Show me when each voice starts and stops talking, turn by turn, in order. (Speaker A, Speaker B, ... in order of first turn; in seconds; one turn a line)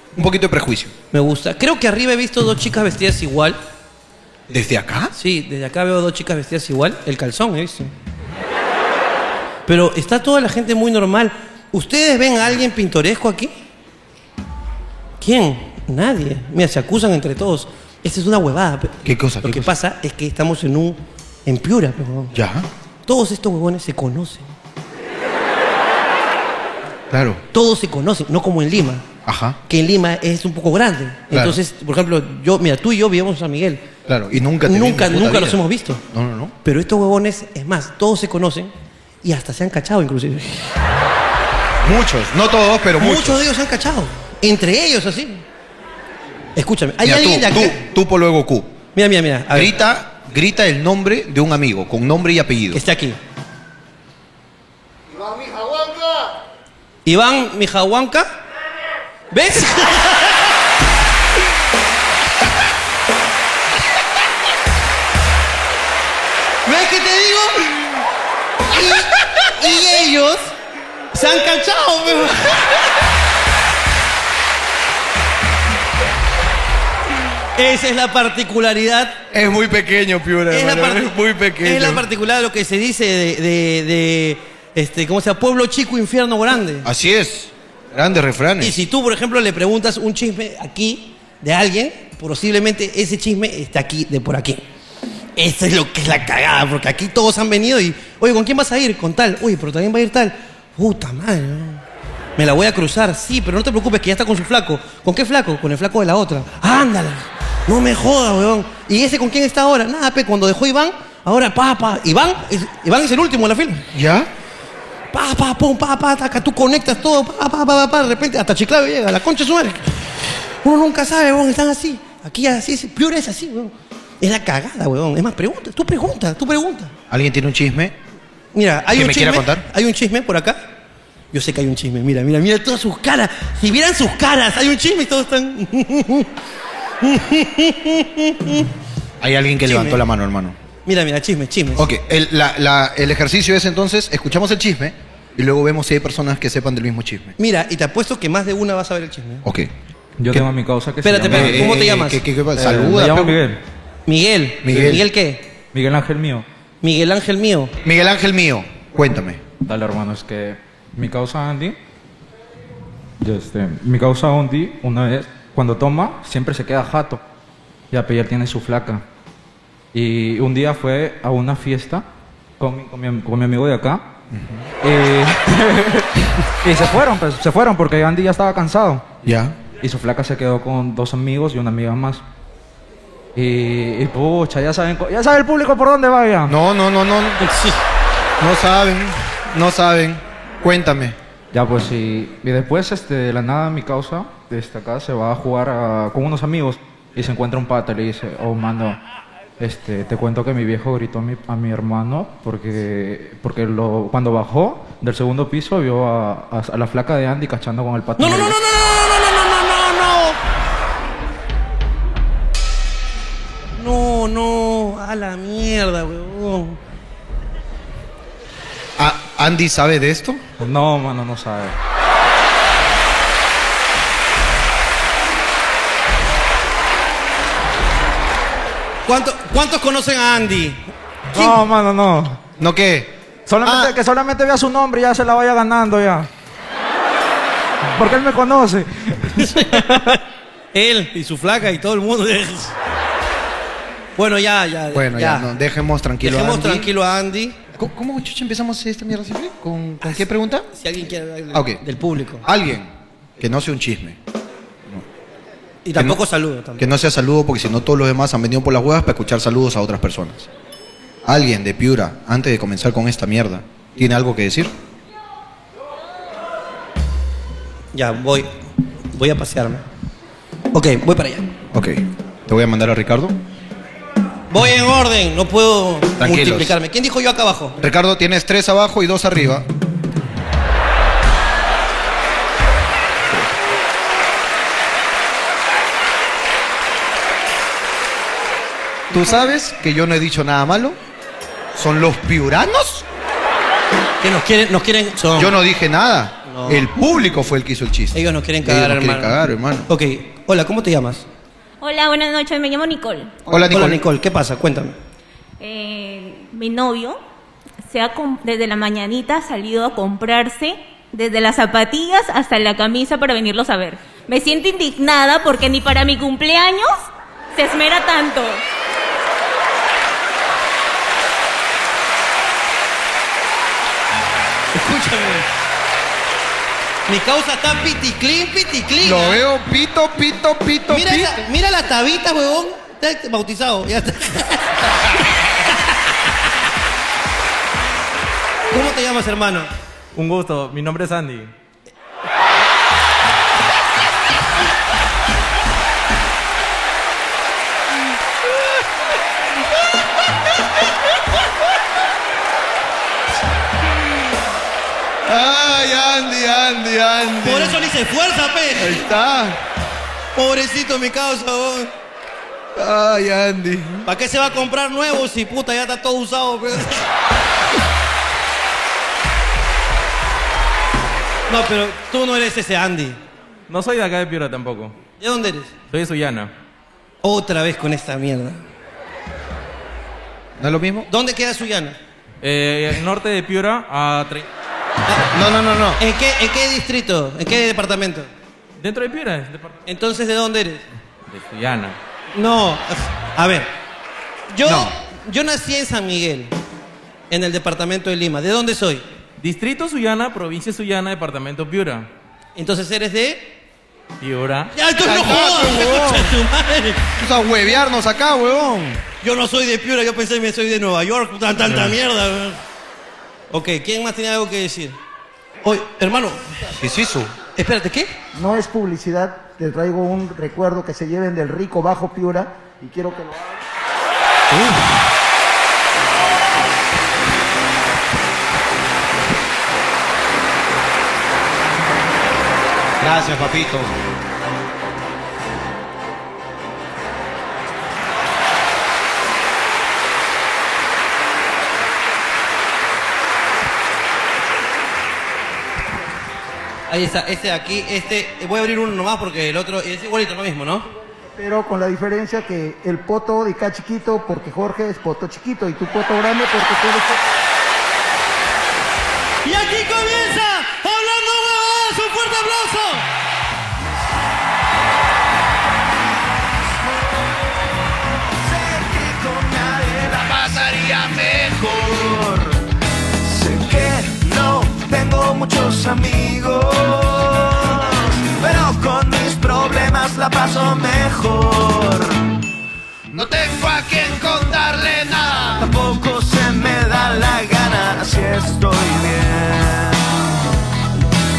Speaker A: 0.1-0.9
Speaker B: 1.1-3.6
Speaker A: 4.5-5.1
Speaker B: 5.1-7.9
Speaker B: 9.7-13.5
Speaker B: 15.2-22.3
Speaker A: 19.0-19.7
Speaker A: 22.3-22.7
Speaker B: 23.1-24.5
Speaker A: 27.1-27.4
Speaker B: 27.5-29.1
Speaker A: 29.2-29.6
Speaker B: 29.7-33.9
Speaker A: 31.3-31.6
Speaker A: 34.1-36.5
Speaker B: 34.6-36.0
Speaker B: 36.6-38.7
Speaker B: 39.2-40.8
Speaker A: 41.8-43.4
Speaker B: 43.0-45.4
Speaker B: 46.5-47.8
Speaker A: 47.0-48.7
Speaker B: 48.9-49.7
Speaker A: 49.5-52.8
Speaker B: 52.7-53.2
Speaker B: 57.0-58.3
Speaker B: 59.3-60.5
Speaker B: 66.6-67.7
Speaker B: 68.7-70.5
Speaker B: 71.1-72.7
Speaker B: 77.6-79.2
Speaker A: 79.3-82.0
Speaker B: 80.5-86.9
Speaker A: 86.8-88.8
Speaker B: 88.6-94.6
Speaker B: 95.3-101.8
Speaker B: 102.4-113.9
Speaker A: 113.9-114.3
Speaker B: 115.1-126.9
Speaker A: 127.1-128.0
Speaker B: 128.5-130.7
Speaker A: 128.9-129.7
Speaker B: 131.3-136.3
Speaker B: 137.0-138.7
Speaker A: 139.2-140.6
Speaker B: 139.6-140.0
Speaker B: 140.8-141.9
Speaker A: 141.8-147.3
Speaker B: 147.4-149.4
Speaker A: 149.4-149.7
Speaker C: 150.2-151.7
Speaker B: 151.0-152.2
Speaker A: 151.3-153.4
Speaker C: 152.5-153.6
Speaker B: 154.1-155.4
Speaker A: 154.6-155.0
Speaker C: 155.7-156.4
Speaker B: 156.8-157.7
Speaker A: 157.8-159.4
Speaker C: 159.6-161.8
Speaker C: 163.2-167.2
Speaker C: 167.9-169.0
Speaker C: 169.9-172.0
Speaker C: 172.6-174.0
Speaker A: 174.3-174.6
Speaker C: 174.8-179.1
Speaker A: 179.2-179.6
Speaker C: 179.8-182.2
Speaker C: 183.3-186.6
Speaker A: 186.5-187.4
Speaker B: 187.4-187.8
Speaker A: 188.4-191.2
Speaker C: 191.5-199.0
Speaker C: 199.6-208.6
Speaker B: 208.2-210.4
Speaker B: 213.8-216.8
Speaker A: 219.0-220.4
Speaker C: 220.6-221.7
Speaker B: 229.1-230.8
Speaker C: 231.3-232.4
Speaker A: 232.6-233.9
Speaker C: 233.5-236.3
Speaker C: 238.0-240.2
Speaker B: 239.3-240.2
Speaker B: 240.7-242.7
Speaker B: 244.2-245.5
Speaker A: 244.9-246.9
Speaker B: 246.2-247.6
Speaker A: 247.7-250.7
Speaker B: 250.7-252.5
Speaker A: 251.5-251.8
Speaker A: 252.4-254.2
Speaker B: 255.8-256.9
Speaker A: 256.8-260.5
Speaker A: 261.2-264.7
Speaker B: 267.9-268.5
Speaker B: 269.1-269.9
Speaker B: 270.7-271.5
Speaker A: 271.7-273.4
Speaker B: 274.5-277.8
Speaker A: 276.2-276.8
Speaker A: 277.8-279.7
Speaker A: 289.1-291.0
Speaker A: 291.7-293.1
Speaker B: 294.2-295.6
Speaker A: 295.4-299.9
Speaker B: 296.5-296.9
Speaker B: 298.1-299.4
Speaker B: 299.9-301.2
Speaker D: 301.8-303.4
Speaker A: 303.5-304.0
Speaker B: 303.5-305.0
Speaker D: 305.6-307.2
Speaker D: 307.8-316.9
Speaker D: 317.5-318.6
Speaker B: 324.7-325.5
Speaker B: 327.1-329.4
Speaker A: 329.0-331.5
Speaker B: 330.9-335.7
Speaker B: 338.7-339.7
Speaker E: 340.1-341.5
Speaker A: 355.2-357.9
Speaker B: 357.4-359.1
Speaker A: 358.8-359.6
Speaker B: 360.3-361.9
Speaker A: 362.8-364.1
Speaker B: 364.1-367.1
Speaker B: 371.5-373.2
Speaker E: 373.7-375.0
Speaker B: 375.2-375.7
Speaker E: 375.9-376.5
Speaker B: 377.2-378.6
Speaker A: 380.6-381.1
Speaker B: 381.1-382.0
Speaker E: 382.4-384.5
Speaker A: 385.3-386.0
Speaker B: 386.0-388.3
Speaker E: 388.8-389.8
Speaker B: 389.9-390.8
Speaker E: 391.3-392.0
Speaker B: 392.3-393.7
Speaker B: 394.5-396.5
Speaker A: 394.6-394.9
Speaker B: 397.3-399.0
Speaker E: 399.4-402.1
Speaker B: 402.6-403.5
Speaker E: 404.2-404.7
Speaker B: 404.7-407.1
Speaker A: 405.0-406.4
Speaker A: 407.2-409.0
Speaker B: 409.2-412.6
Speaker A: 411.7-411.9
Speaker B: 413.5-415.0
Speaker B: 415.6-416.6
Speaker A: 416.8-417.3
Speaker B: 417.6-418.1
Speaker F: 418.4-423.6
Speaker B: 424.5-424.8
Speaker A: 433.0-434.0
Speaker B: 446.9-450.9
Speaker F: 451.3-457.2
Speaker B: 459.4-463.1
Speaker G: 466.4-467.3
Speaker G: 468.4-472.7
Speaker A: 470.2-471.6
Speaker G: 473.2-482.3
Speaker A: 483.1-485.7
Speaker G: 485.6-490.2